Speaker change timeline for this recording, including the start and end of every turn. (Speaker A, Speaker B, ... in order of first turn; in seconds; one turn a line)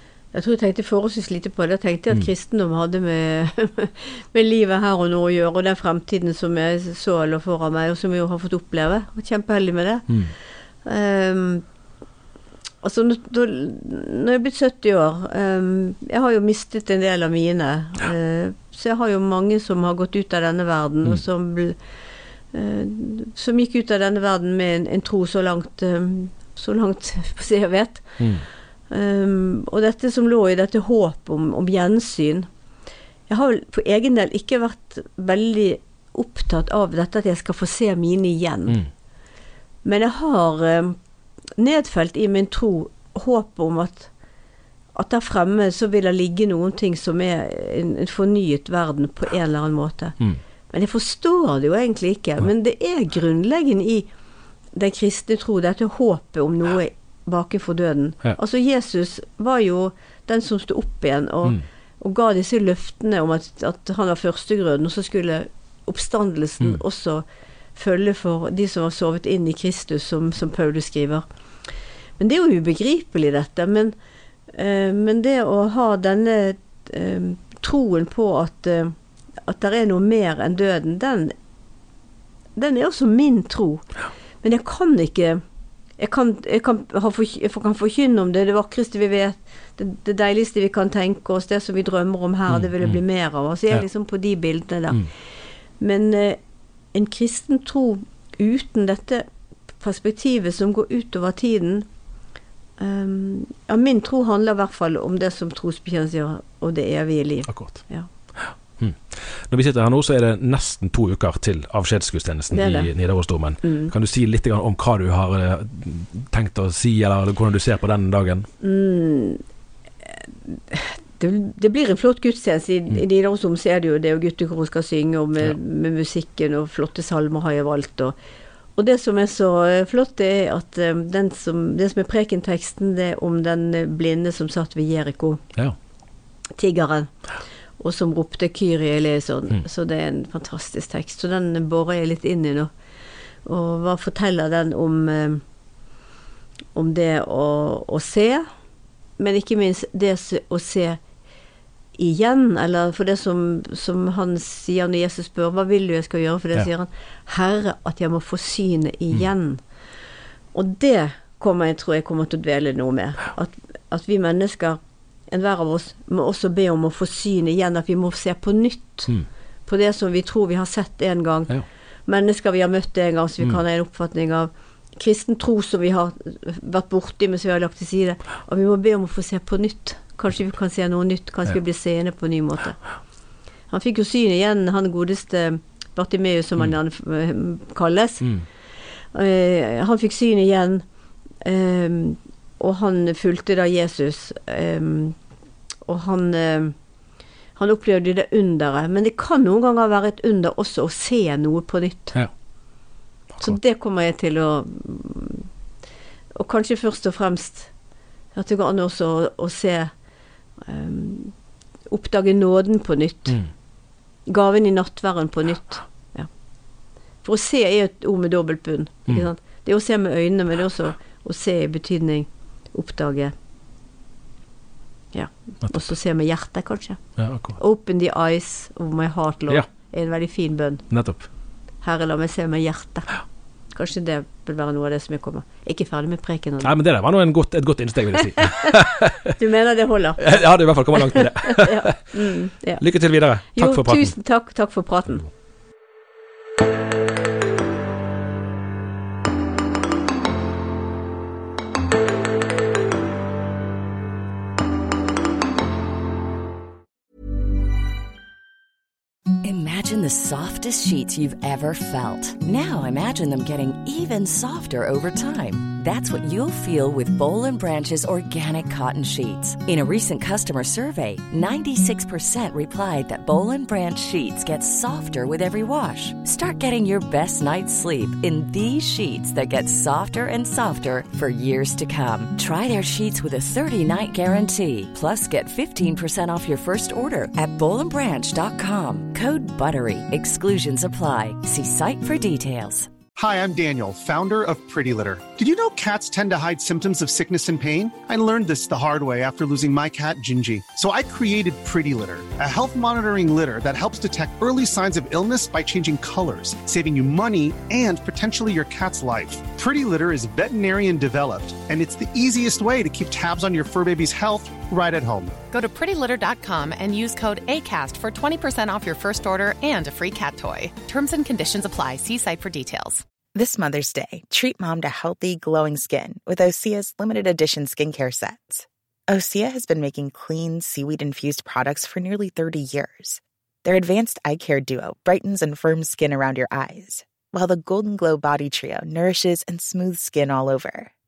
Speaker A: 0.3-10.1
Speaker A: 10.8-11.6
Speaker A: 12.8-21.8
Speaker A: 22.5-28.1
Speaker B: 28.2-28.4
Speaker A: 28.9-32.5
Speaker A: 33.3-38.8
Speaker A: 39.8-41.0
Speaker A: 41.6-44.1
Speaker A: 44.9-50.1
Speaker A: 50.7-54.1
Speaker A: 54.7-67.2
Speaker A: 67.8-71.2
Speaker A: 72.2-73.9
Speaker A: 74.5-81.3
Speaker A: 82.5-83.8
Speaker A: 84.4-85.4
Speaker A: 86.0-95.1
Speaker B: 92.5-93.0
Speaker A: 95.8-96.4
Speaker A: 96.9-99.2
Speaker A: 99.8-101.9
Speaker A: 102.8-108.1
Speaker B: 107.5-107.8
Speaker B: 108.3-118.5
Speaker A: 112.5-112.9
Speaker A: 113.6-113.9
Speaker A: 118.6-119.4
Speaker A: 120.5-128.2
Speaker A: 128.8-135.4
Speaker A: 136.6-137.1
Speaker A: 137.8-142.7
Speaker A: 143.4-145.4
Speaker A: 146.7-148.5
Speaker A: 149.2-151.0
Speaker A: 151.9-159.6
Speaker A: 160.5-169.1
Speaker A: 169.7-171.5
Speaker A: 172.1-182.8
Speaker A: 183.7-188.3
Speaker A: 189.1-190.8
Speaker A: 191.4-195.2
Speaker A: 195.8-196.7
Speaker A: 197.6-202.2
Speaker A: 203.4-205.5
Speaker A: 206.3-207.7
Speaker A: 208.3-209.9
Speaker A: 210.6-211.3
Speaker A: 211.9-213.4
Speaker A: 214.2-216.3
Speaker A: 217.2-223.3
Speaker A: 225.1-227.0
Speaker B: 227.2-227.6
Speaker A: 227.6-230.8
Speaker B: 230.9-231.3
Speaker A: 231.8-233.2
Speaker A: 233.7-236.7
Speaker B: 236.6-239.3
Speaker A: 239.4-240.4
Speaker B: 240.2-242.2
Speaker A: 241.1-242.8
Speaker B: 242.8-244.1
Speaker A: 243.5-245.2
Speaker C: 259.4-292.9
Speaker D: 293.1-315.4
Speaker E: 315.5-323.0
Speaker F: 323.3-340.9